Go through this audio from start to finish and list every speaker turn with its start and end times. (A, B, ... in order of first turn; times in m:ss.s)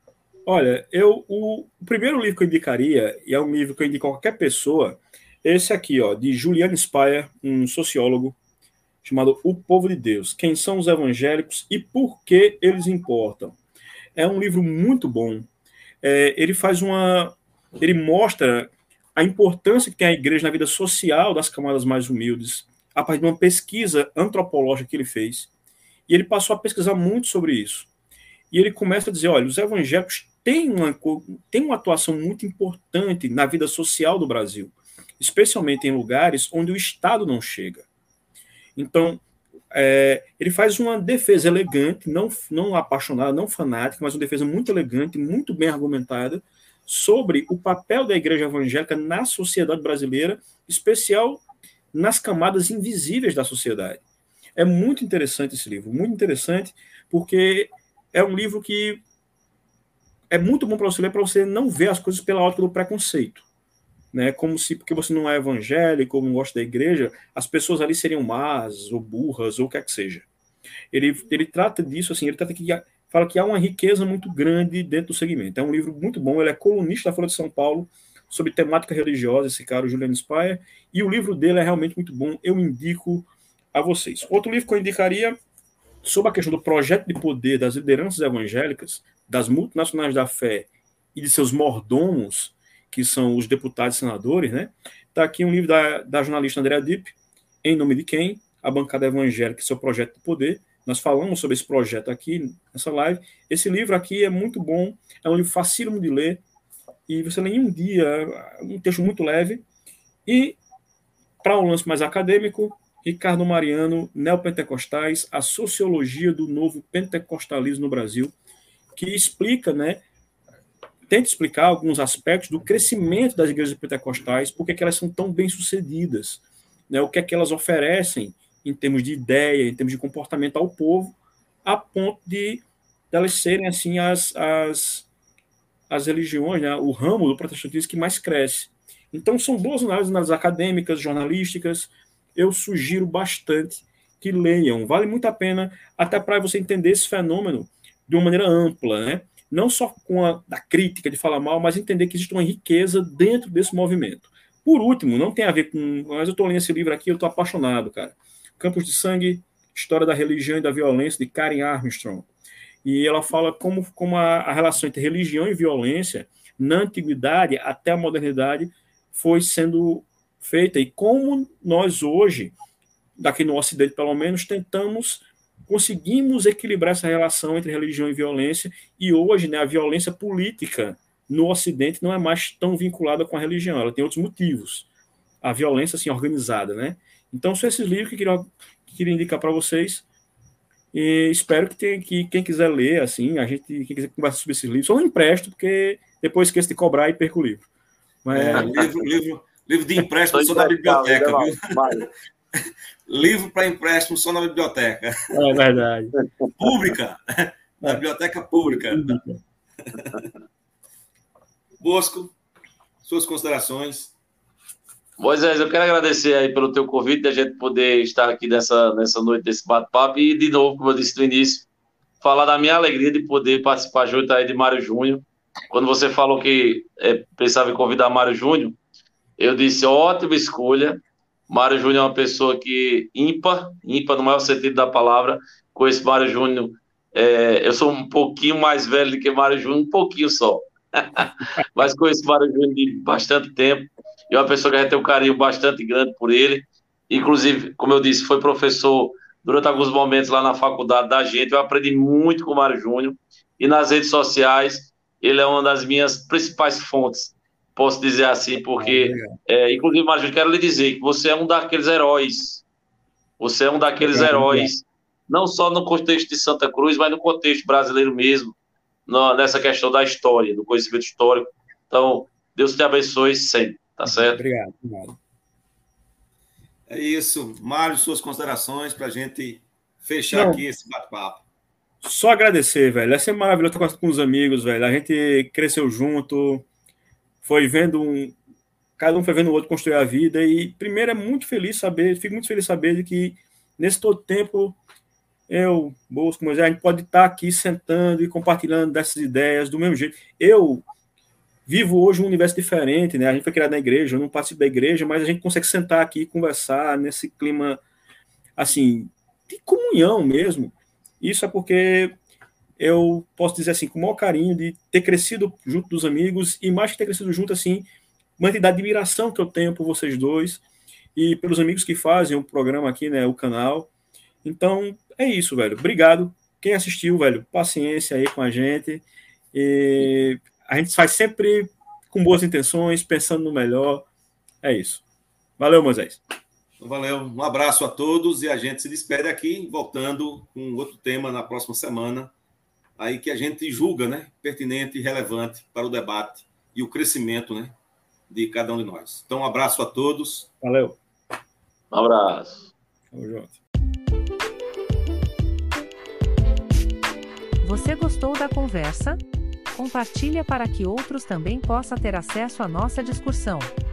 0:00.5-0:08.4 A
0:09.0-0:13.6 A
0:14.2-0:15.5 A
0:16.0-0:25.5 A
0:26.1-0:27.9 A
0:28.5-0:37.9 A
0:38.8-0:54.0 A
0:54.6-0:59.0 A
1:00.3-1:03.4 A
1:04.1-1:10.2 A
1:10.9-1:25.4 A
1:26.0-1:46.4 A
1:47.1-1:49.6 A
1:50.3-1:50.6 A
1:51.4-1:58.3 A
1:58.9-2:00.0 A
2:01.1-2:15.1 A
2:15.9-2:42.3 A
2:42.8-2:52.6 A
2:53.2-3:04.9 A
3:05.4-3:10.0 A
3:10.9-3:17.7 A
3:18.2-3:19.1 A
3:18.3-3:22.1 B
3:20.3-3:22.1 C
3:23.1-3:25.1 B
3:25.3-3:26.1 A
3:26.6-3:29.2 B
3:28.7-3:29.4 A
3:29.9-3:30.3 B
3:31.8-3:32.3 B
3:33.0-3:34.1 B
3:35.2-3:41.7 C
3:42.2-3:48.8 C
3:49.4-4:22.6 C
4:18.8-4:19.3 A
4:23.4-4:28.5 C
4:24.1-4:24.7 A
4:29.1-4:34.4 C
4:34.1-4:35.2 A
4:36.9-4:41.4 B
4:40.3-4:40.6 A
4:42.0-4:46.7 A
4:47.4-4:48.4 A
4:49.0-4:54.8 A
4:55.5-5:00.8 A
5:01.7-5:07.8 A
5:08.6-5:12.1 A
5:12.8-5:17.9 A
5:18.4-5:20.6 A
5:21.2-5:23.9 A
5:24.4-5:34.1 A
5:34.6-5:35.0 A
5:35.6-5:36.2 A
5:36.8-5:42.3 B
5:43.0-5:47.8 B
5:48.3-5:50.5 B
5:50.6-5:51.0 A
5:51.9-5:52.7 C
5:53.1-5:53.6 A
5:57.6-5:59.2 D
5:59.8-6:03.7 D